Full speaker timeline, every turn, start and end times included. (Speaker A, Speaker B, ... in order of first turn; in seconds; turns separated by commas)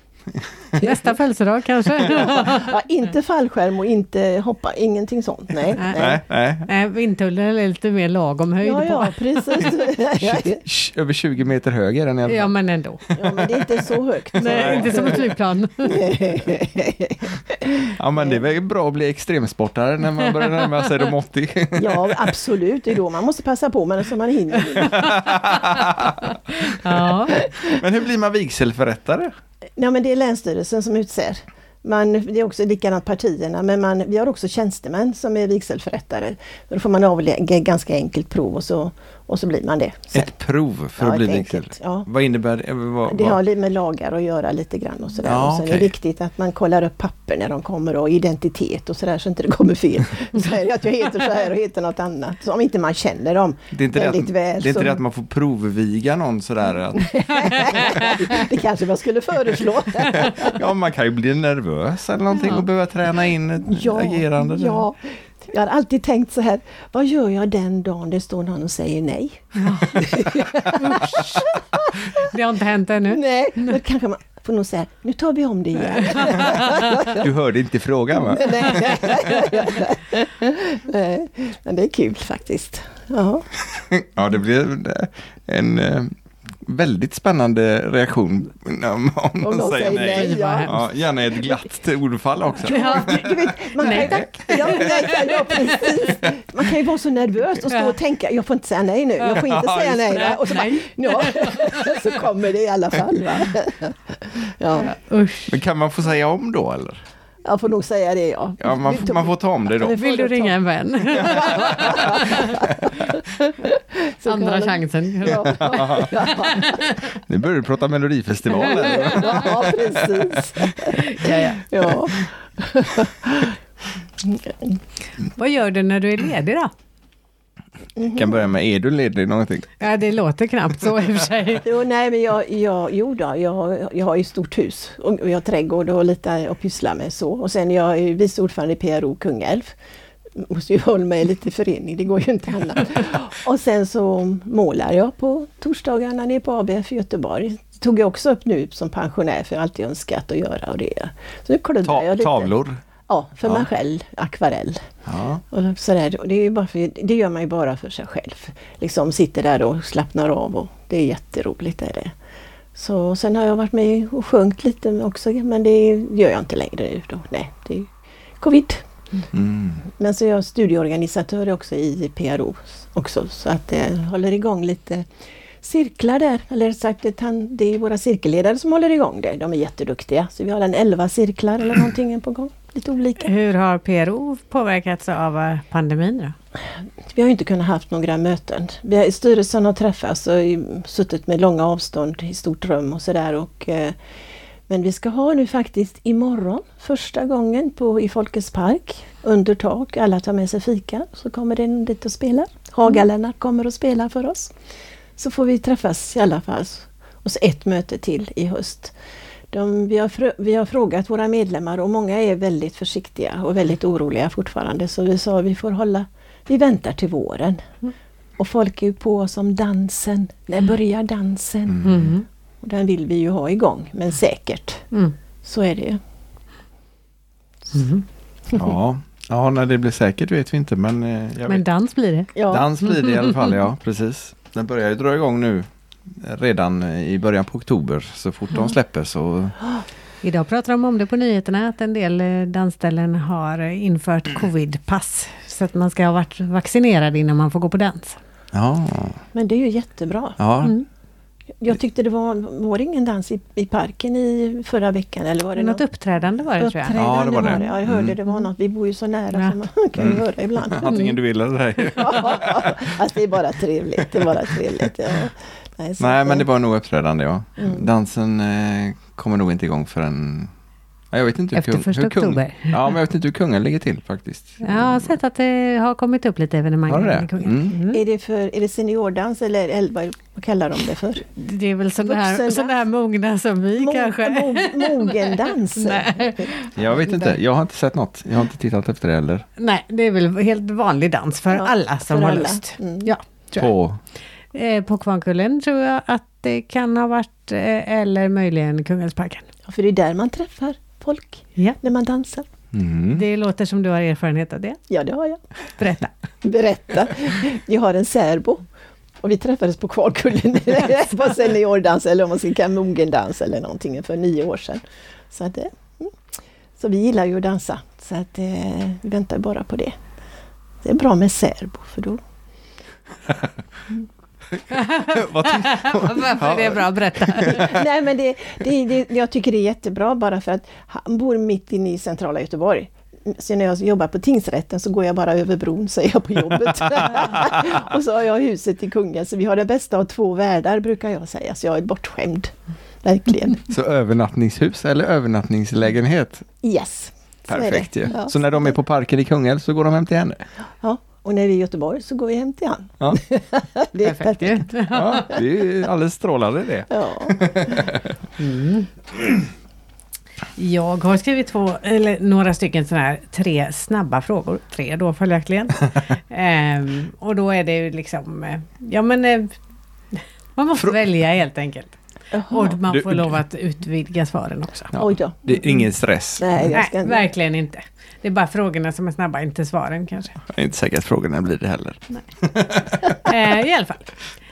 Speaker A: 0.3-0.8, Speaker B: 0.8-2.7, Speaker C: 2.0-6.2, Speaker A: 6.0-6.7, Speaker B: 6.7-9.7, Speaker C: 8.6-10.6, Speaker A: 10.2-12.5, Speaker B: 12.3-13.1, Speaker C: 13.2-15.2, Speaker A: 14.4-15.2, Speaker B: 14.4-16.0, Speaker C: 15.8-18.4, Speaker A: 18.0-22.4, Speaker C: 21.8-25.3, Speaker A: 24.8-29.3, Speaker B: 26.3-27.4, Speaker C: 27.4-27.8, Speaker C: 29.8-40.3, Speaker A: 40.1-43.4, Speaker C: 41.0-42.1, Speaker C: 43.1-55.0, Speaker A: 45.2-45.9, Speaker A: 53.7-58.3, Speaker C: 57.0-60.6, Speaker A: 60.1-64.8, Speaker B: 62.4-62.6, Speaker C: 63.6-72.3, Speaker B: 69.6-70.0, Speaker B: 70.8-71.2, Speaker B: 72.2-73.8, Speaker C: 73.1-77.2, Speaker B: 76.0-76.8, Speaker A: 77.1-79.4, Speaker C: 78.3-83.5, Speaker A: 83.7-93.2, Speaker C: 89.4-90.9, Speaker B: 90.0-90.8, Speaker B: 92.6-95.8, Speaker C: 92.7-104.9, Speaker A: 93.8-94.8, Speaker A: 99.3-100.4, Speaker B: 100.3-101.9, Speaker B: 104.8-105.5, Speaker A: 105.5-107.0, Speaker C: 107.5-110.5, Speaker A: 108.6-110.0, Speaker B: 109.8-112.6, Speaker A: 111.2-113.0, Speaker C: 111.2-116.9, Speaker B: 114.3-117.1, Speaker A: 115.3-116.2, Speaker A: 117.1-120.7, Speaker B: 118.6-119.4, Speaker C: 118.9-123.6, Speaker B: 121.0-121.6, Speaker C: 124.2-124.8, Speaker B: 125.4-126.7, Speaker C: 128.0-128.4, Speaker A: 128.1-129.8, Speaker B: 129.8-131.7, Speaker C: 131.6-139.7, Speaker C: 140.4-152.5, Speaker A: 151.8-152.8, Speaker C: 153.1-154.8, Speaker A: 155.1-155.4, Speaker C: 155.5-162.1, Speaker C: 162.8-168.9, Speaker A: 169.3-169.8, Speaker C: 169.8-175.1, Speaker C: 175.6-183.3, Speaker B: 183.2-186.3, Speaker C: 187.1-194.0, Speaker C: 194.7-204.5, Speaker C: 205.2-209.0, Speaker C: 209.5-217.7, Speaker C: 218.4-224.9, Speaker A: 221.7-222.1, Speaker B: 221.8-222.2, Speaker C: 225.4-226.0, Speaker B: 227.7-228.0, Speaker A: 228.5-231.7, Speaker B: 231.5-233.5, Speaker C: 232.3-232.7, Speaker A: 232.5-239.6, Speaker B: 240.2-248.2, Speaker A: 248.5-249.2, Speaker C: 249.3-250.4, Speaker A: 250.4-250.7, Speaker C: 251.6-255.8, Speaker B: 255.6-257.0, Speaker C: 256.6-261.1, Speaker A: 257.0-258.1, Speaker A: 260.0-262.8, Speaker C: 261.9-266.5, Speaker A: 266.0-270.5, Speaker C: 267.6-267.9, Speaker A: 271.1-275.1, Speaker B: 271.5-272.9, Speaker B: 274.6-278.0, Speaker A: 276.9-277.8, Speaker C: 277.7-281.3, Speaker B: 281.3-287.1, Speaker C: 282.0-282.8, Speaker C: 283.8-286.6, Speaker A: 286.8-289.5, Speaker B: 289.6-293.7, Speaker C: 291.5-293.1, Speaker A: 293.6-294.0, Speaker B: 294.5-299.5, Speaker C: 299.7-302.5, Speaker A: 302.7-303.2, Speaker B: 303.1-304.8, Speaker C: 304.9-305.4, Speaker B: 305.8-306.1, Speaker C: 306.4-308.7, Speaker C: 309.2-316.1, Speaker C: 316.8-320.0, Speaker C: 320.8-322.2, Speaker A: 324.5-327.7, Speaker B: 324.7-327.7, Speaker C: 327.4-343.6, Speaker A: 337.2-337.7, Speaker A: 343.7-346.4, Speaker C: 346.6-348.7, Speaker A: 347.5-350.4, Speaker C: 350.8-354.7, Speaker B: 354.0-355.4, Speaker A: 354.9-358.2, Speaker C: 356.9-357.9, Speaker B: 358.4-358.9, Speaker B: 360.6-369.6, Speaker B: 370.6-374.9, Speaker C: 372.3-372.8, Speaker A: 372.9-373.4, Speaker A: 374.9-376.7, Speaker C: 374.9-375.8, Speaker C: 376.4-377.2, Speaker B: 376.7-380.4, Speaker A: 380.5-383.3, Speaker B: 383.2-384.2